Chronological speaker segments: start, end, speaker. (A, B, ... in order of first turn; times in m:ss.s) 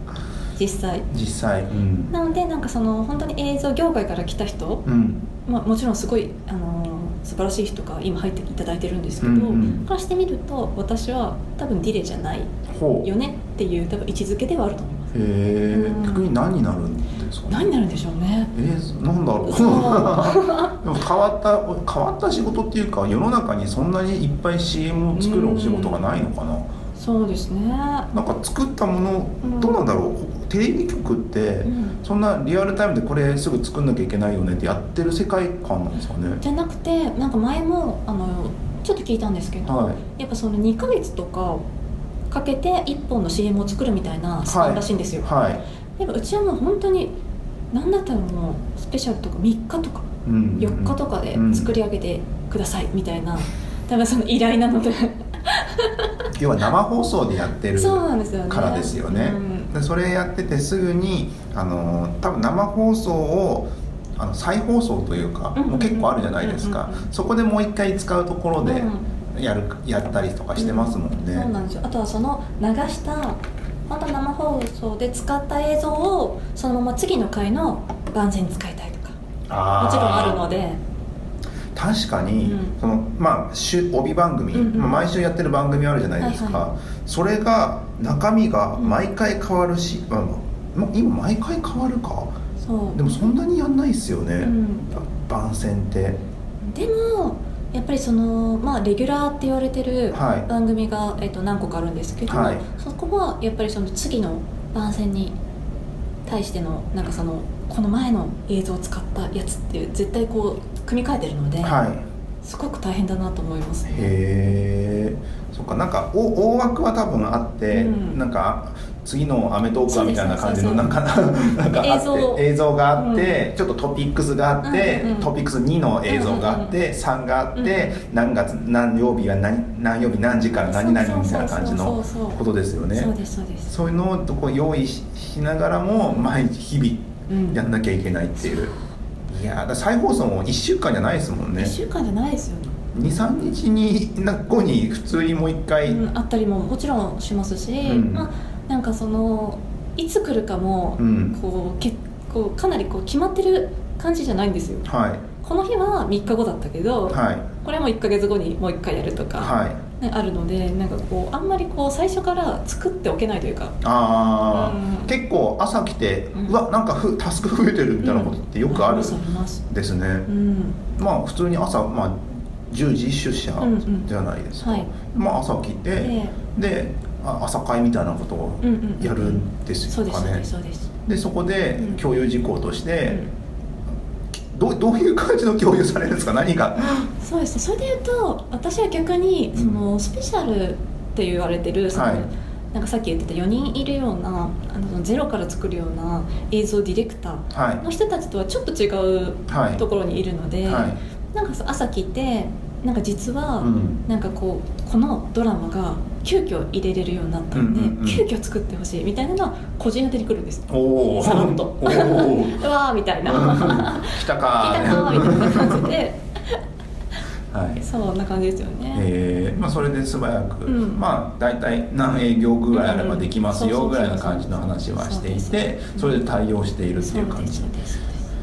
0:00.6-0:01.1 A
0:01.1-0:02.1 B
0:02.1-0:04.8 A
0:04.8-0:05.3 B
0:05.4-0:15.1 A
0:09.2-0:09.9 B
0:12.7-0:13.1 B
0:15.1-0:17.7 B
0:15.7-0:16.3 A
0:17.5-0:18.5 A
0:18.5-0:26.7 B
0:19.4-0:20.8 A
0:25.1-0:26.0 A
0:27.0-0:28.1 A
0:28.1-0:36.4 B
0:29.4-0:29.8 A
0:31.7-0:32.0 A
0:36.4-0:41.6 A
0:39.7-0:40.0 B
0:42.3-0:45.3 A
0:44.5-0:45.6 B
0:46.0-0:47.2 A
0:47.7-0:56.3 A
0:50.2-0:51.7 B
0:56.3-1:11.5 B
0:57.8-0:59.7 A
1:05.6-1:07.1 A
1:08.6-1:09.1 A
1:10.6-1:19.2 A
1:19.5-1:20.5 B
1:19.8-1:20.8 A
1:21.8-1:32.4 B
1:22.4-1:22.8 A
1:24.5-1:24.9 A
1:26.2-1:26.6 A
1:32.6-1:33.3 A
1:32.9-1:36.2 B
1:34.4-1:34.9 A
1:36.6-1:45.4 A
1:40.1-1:40.5 B
1:42.3-1:42.6 B
1:46.3-1:51.8 A
1:51.6-1:52.0 B
1:52.4-1:54.2 A
1:53.9-2:13.1 B
1:57.7-1:58.2 A
1:59.9-2:00.9 A
2:01.8-2:02.4 A
2:03.0-2:03.3 A
2:04.6-2:05.3 A
2:06.1-2:06.7 A
2:07.6-2:08.0 A
2:10.6-2:12.4 A
2:12.9-2:13.7 A
2:13.7-2:18.7 B
2:17.3-2:17.6 A
2:19.3-2:21.8 B
2:21.6-2:22.8 A
2:22.9-2:26.0 B
2:25.8-2:34.9 A
2:27.8-2:28.3 B
2:31.0-2:31.4 B
2:34.9-2:35.2 B
2:35.4-2:43.8 A
2:37.1-2:37.5 B
2:39.4-2:39.8 B
2:43.8-2:50.3 B
2:44.5-2:45.1 A
2:48.0-2:49.6 A
2:50.3-2:50.8 A
2:50.9-3:00.5 B
2:53.6-2:54.1 A
2:54.6-2:54.9 A
2:56.0-2:56.4 A
2:58.6-3:00.9 A
3:01.0-3:03.2 B
3:04.3-3:07.1 B
3:07.2-3:36.6 A
3:09.6-3:09.8 B
3:11.9-3:12.3 B
3:17.5-3:17.8 B
3:19.5-3:19.8 B
3:20.6-3:21.0 B
3:23.6-3:24.0 B
3:27.5-3:28.3 B
3:30.7-3:32.6 B
3:33.3-3:35.9 B
3:37.5-3:37.9 B
3:37.8-3:39.1 A
3:38.9-3:47.7 B
3:40.7-3:41.0 A
3:42.7-3:46.2 A
3:47.0-3:48.2 A